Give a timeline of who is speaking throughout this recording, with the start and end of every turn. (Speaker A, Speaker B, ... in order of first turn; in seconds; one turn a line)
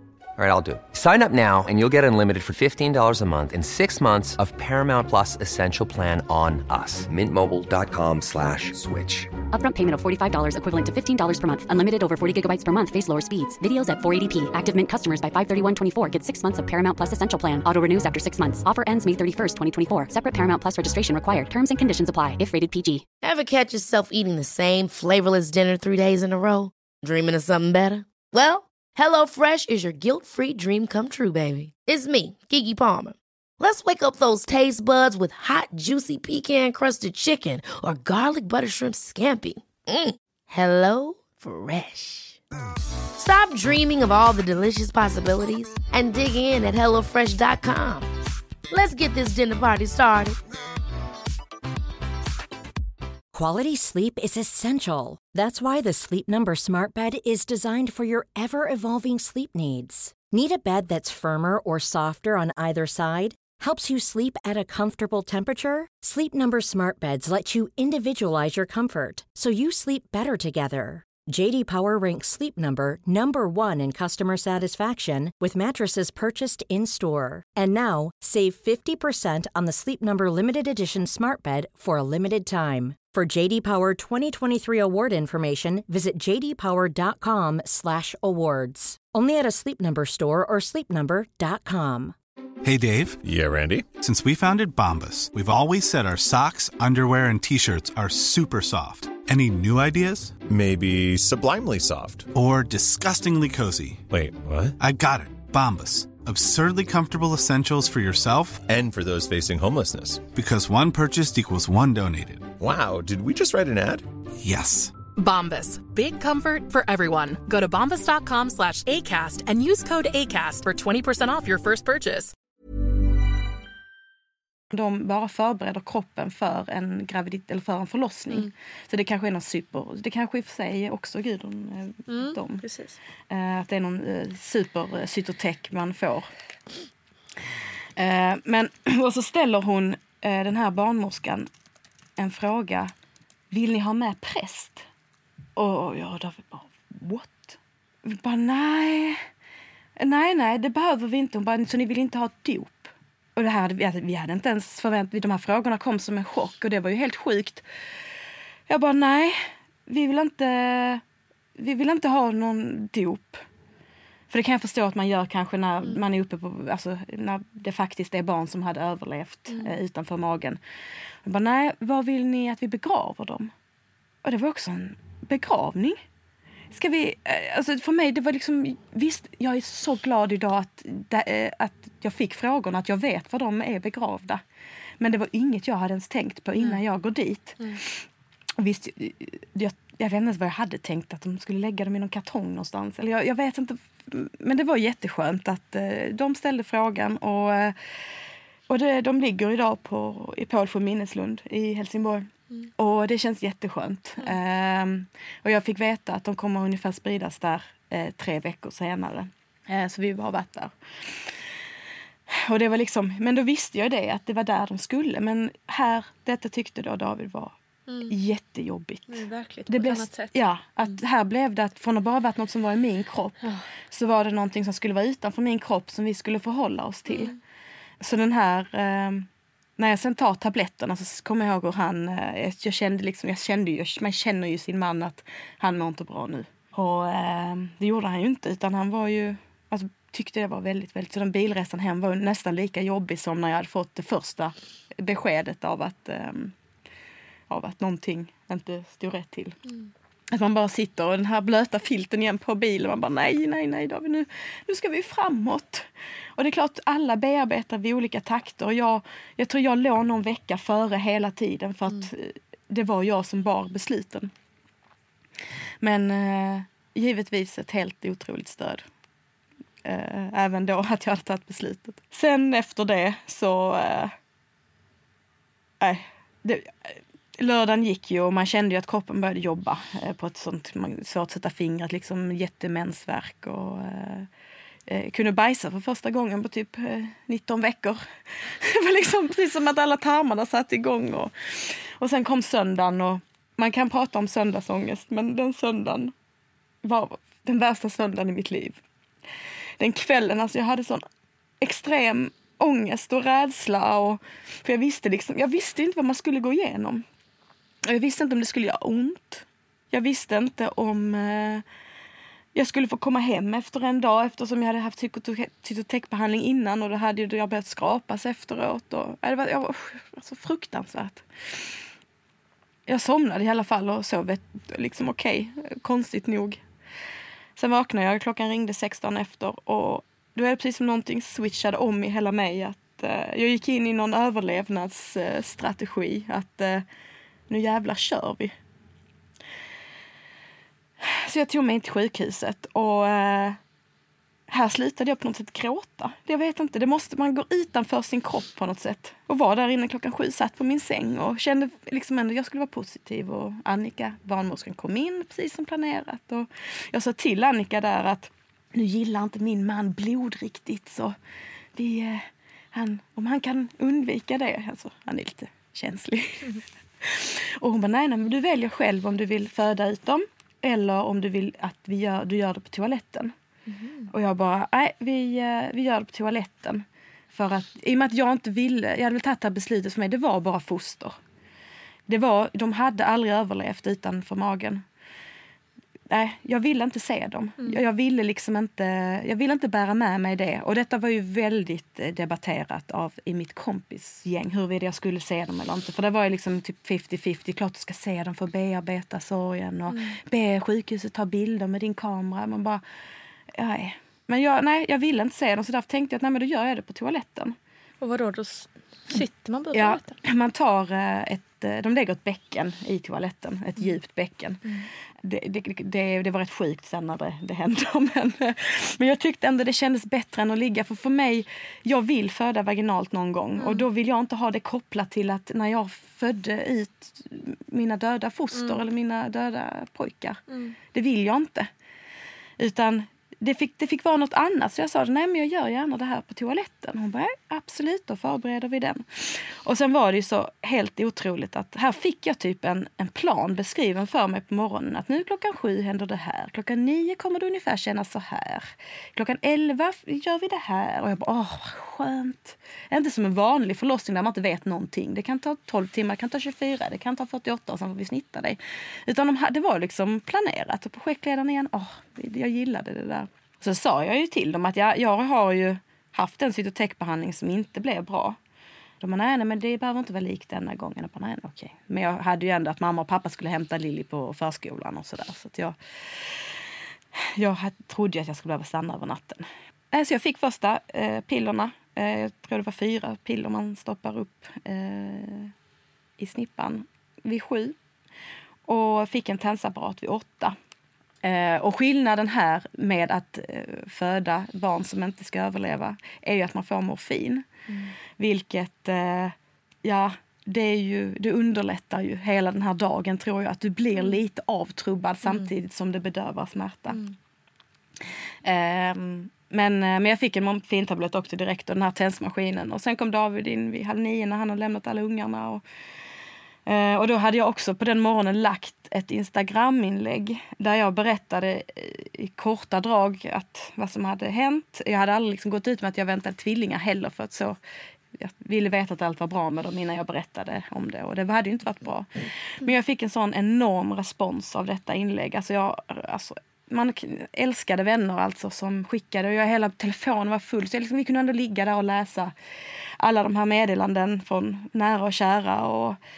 Speaker A: 0.4-9.3
Speaker B: 9.5-23.1
Speaker C: 23.2-42.4
Speaker C: 43.2-48.1
Speaker C: 48.7-50.4
Speaker D: 53.3-92.2
Speaker E: 92.6-93.2
Speaker F: 93.2-93.9
Speaker E: 94.0-100.4
Speaker F: 100.5-102.3
Speaker E: 102.3-104.1
Speaker F: 104.1-104.8
Speaker E: 104.8-108.6
Speaker F: 108.7-110.3
Speaker E: 110.3-112.5
Speaker F: 112.6-114.0
Speaker E: 114.4-114.9
Speaker G: 115.2-122.3
Speaker H: 124.7-132.6
Speaker I: 132.1-133.0
Speaker H: 133.3-136.3
Speaker H: 138.0-141.5
Speaker H: 142.2-142.9
Speaker H: 143.5-144.8
Speaker H: 145.6-149.2
Speaker H: 150.0-157.6
Speaker H: 158.7-161.0
Speaker H: 161.6-163.4
Speaker H: 164.3-170.6
Speaker H: 171.2-173.5
Speaker H: 174.2-176.0
Speaker H: 176.7-184.4
Speaker H: 185.0-188.0
Speaker H: 188.6-197.8
Speaker H: 198.7-210.7
Speaker H: 212.3-217.5
Speaker I: 217.9-218.2
Speaker H: 218.1-227.3
Speaker I: 219.1-220.3
Speaker I: 227.1-227.4
Speaker H: 228.0-229.3
Speaker H: 229.8-246.5
Speaker H: 247.5-249.6
Speaker H: 250.3-264.3
Speaker H: 265.8-268.9
Speaker H: 269.8-274.1
Speaker H: 275.8-284.3
Speaker H: 284.9-296.1
Speaker H: 296.8-298.8
Speaker H: 299.8-301.0
Speaker H: 301.6-307.1
Speaker H: 307.9-311.6
Speaker H: 312.6-321.7
Speaker H: 322.9-326.6
Speaker H: 327.6-336.9
Speaker H: 337.5-338.6
Speaker H: 341.0-343.6
Speaker H: 344.5-361.1
Speaker H: 361.8-373.3
Speaker I: 373.7-374.1
Speaker H: 374.1-381.2
Speaker H: 382.1-384.8
Speaker H: 386.1-402.8
Speaker I: 399.9-400.2
Speaker H: 403.5-407.6
Speaker I: 408.0-410.2
Speaker H: 409.7-414.7
Speaker H: 415.2-430.4
Speaker I: 423.6-423.9
Speaker I: 430.5-430.8
Speaker H: 430.9-431.7
Speaker H: 432.6-468.4
Speaker H: 469.0-476.6
Speaker H: 477.1-485.5
Speaker H: 486.2-487.8
Speaker H: 488.7-490.6
Speaker H: 491.2-497.5
Speaker H: 498.2-507.0
Speaker H: 508.4-515.6
Speaker H: 516.7-527.6
Speaker H: 528.1-542.3
Speaker H: 543.0-546.0